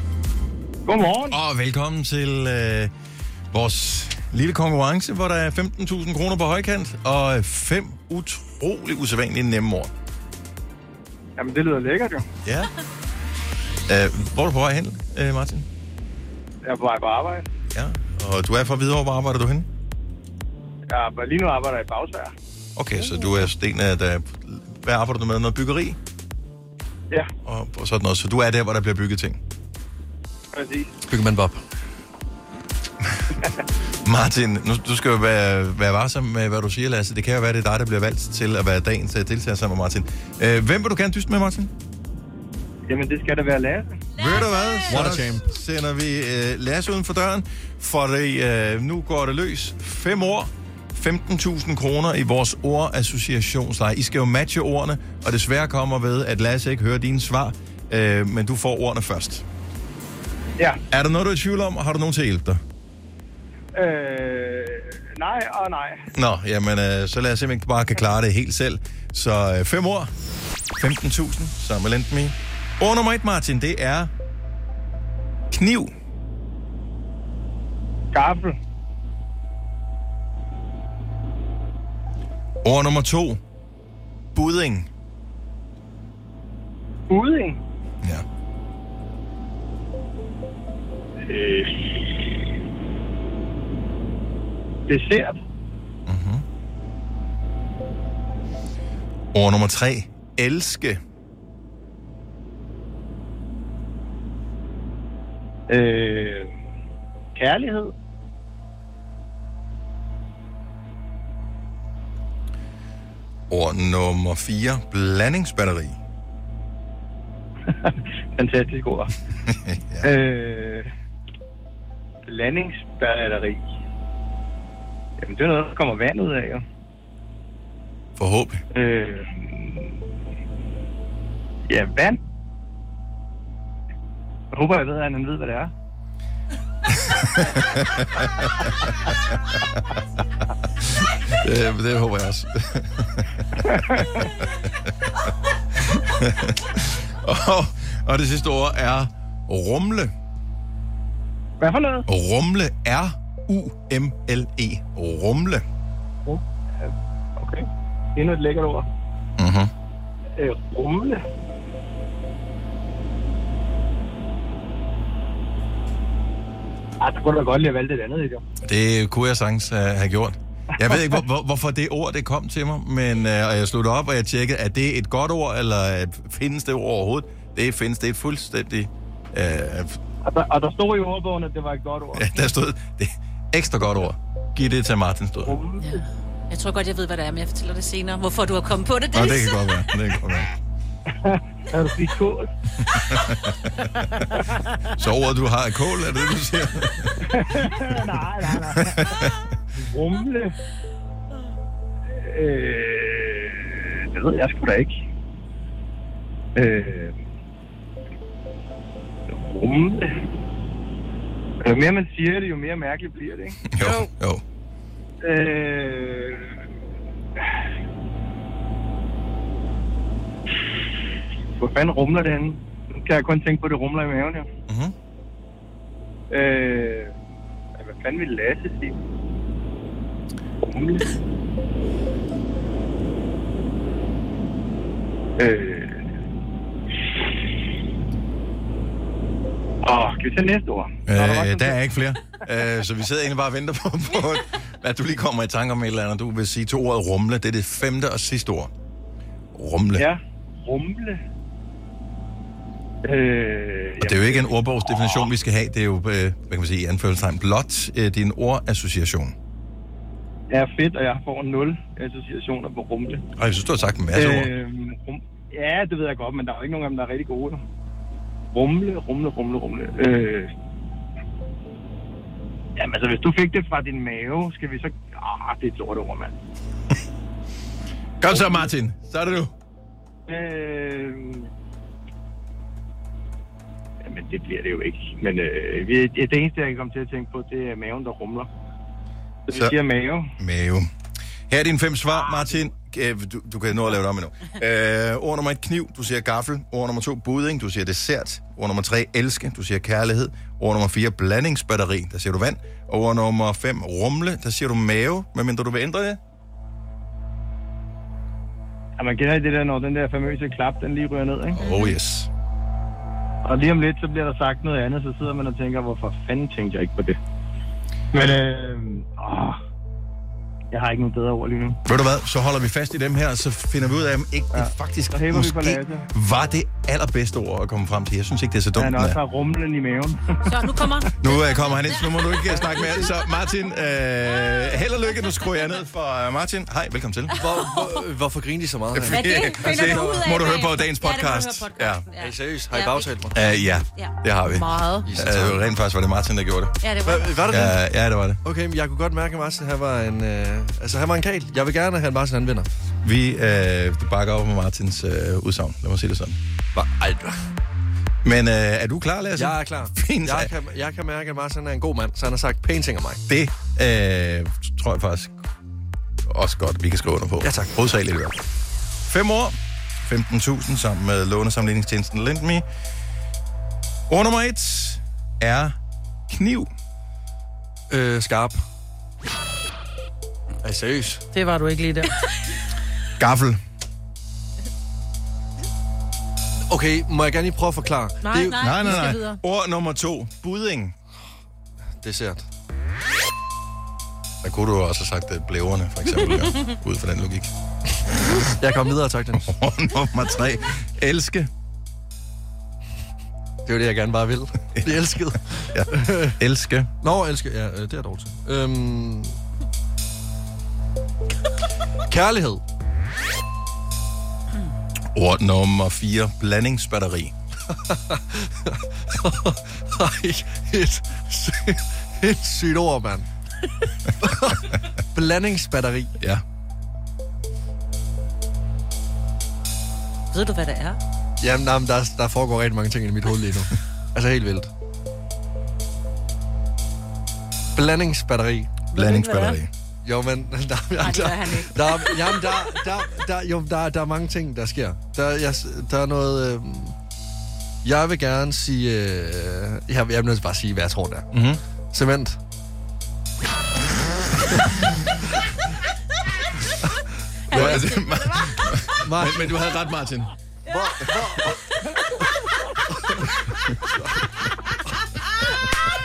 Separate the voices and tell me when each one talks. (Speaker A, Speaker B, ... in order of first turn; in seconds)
Speaker A: 0.8-1.4, 11.4-12.2, 16.6-17.4, 20.9-22.3, 30.5-30.9, 42.9-44.0, 63.7-66.0, 78.1-78.5, 87.1-87.6, 91.3-91.8, 94.9-95.4, 105.7-106.5, 107.3-107.9, 117.7-119.1, 120.0-120.9, 122.2-123.6, 125.2-126.6, 128.7-129.9, 131.7-132.2, 134.5-135.7, 143.6-144.3, 151.6-152.1, 156.2-158.9, 160.4-161.2, 167.0-168.4, 180.2-182.3, 185.4-185.9, 191.1-192.5, 197.2-199.1, 199.8-200.5, 202.1-204.9, 206.6-207.1, 209.3-210.2, 211.6-213.6, 215.2-216.5, 221.6-224.5, 226.3-227.1, 227.8-228.9, 230.6-231.1, 235.4-236.0, 239.8-241.8, 249.9-251.2, 253.0-255.2, 260.5-263.2, 264.1-267.6, 268.5-270.5, 272.8-276.3, 278.3-278.6, 280.3-281.5, 284.0-288.5, 289.5-290.3, 309.0-311.6, 313.4-317.2, 318.1-319.6, 320.7-321.8, 324.5-326.0, 328.7-330.2
Speaker B: 1.3-2.9, 3.5-9.9, 12.4-12.7, 13.9-15.7, 17.7-19.7, 22.8-26.0, 27.4-29.4, 34.0-41.7, 44.2-59.4, 60.9-62.6, 66.1-70.1, 70.8-74.1, 75.5-75.9, 82.6-83.4, 84.3-84.9, 96.1-96.4, 99.3-101.0, 113.5-116.0, 119.4-120.1, 128.2-128.6, 136.9-138.7, 140.8-144.9, 145.9-150.1, 152.1-155.6, 159.4-159.7, 168.6-180.0, 182.1-185.6, 189.1-190.5, 192.9-193.9, 194.9-197.1, 198.7-199.4, 213.7-214.4, 224.7-224.9, 241.1-248.7, 249.5-250.1, 254.0-259.3, 263.4-264.5, 278.2-279.5, 289.5-289.7, 290.4-290.9, 291.5-306.2, 311.5-312.3, 321.9-329.2, 331.2-337.4, 338.9-342.0, 343.3-346.8, 347.5-348.4, 353.0-356.4, 358.2-360.5, 363.3-365.4, 366.3-368.4, 369.1-372.6, 374.1-375.8, 376.3-376.7, 383.2-383.6, 388.6-390.9, 394.4-397.5, 399.4-401.5, 405.7-406.9, 415.1-417.3, 438.9-439.7, 451.3-451.6, 457.5-460.3
Speaker C: 31.1-31.6, 44.9-45.4, 337.4-340.3, 342.2-343.4, 345.1-345.6, 347.0-347.8, 348.4-352.7, 356.7-357.4, 359.4-363.2, 367.4-367.7, 377.9-378.6, 380.6-381.2, 386.7-388.7, 392.0-392.4, 398.6-399.5, 403.6-406.4, 407.0-409.4, 412.1-412.6, 417.7-423.3, 424.2-426.1, 431.4-434.7, 437.7-438.8, 440.0-446.9, 447.8-451.3, 451.9-452.4, 457.5-457.9, 459.0-459.5, 460.7-461.6, 463.9-464.2
Speaker D: 44.1-45.0, 185.8-189.6, 330.4-333.0, 337.3-337.9, 339.1-344.1, 346.8-347.4, 430.3-431.0, 439.0-439.4, 441.0-442.4
Speaker E: 344.5-345.1, 381.3-382.1, 388.2-389.4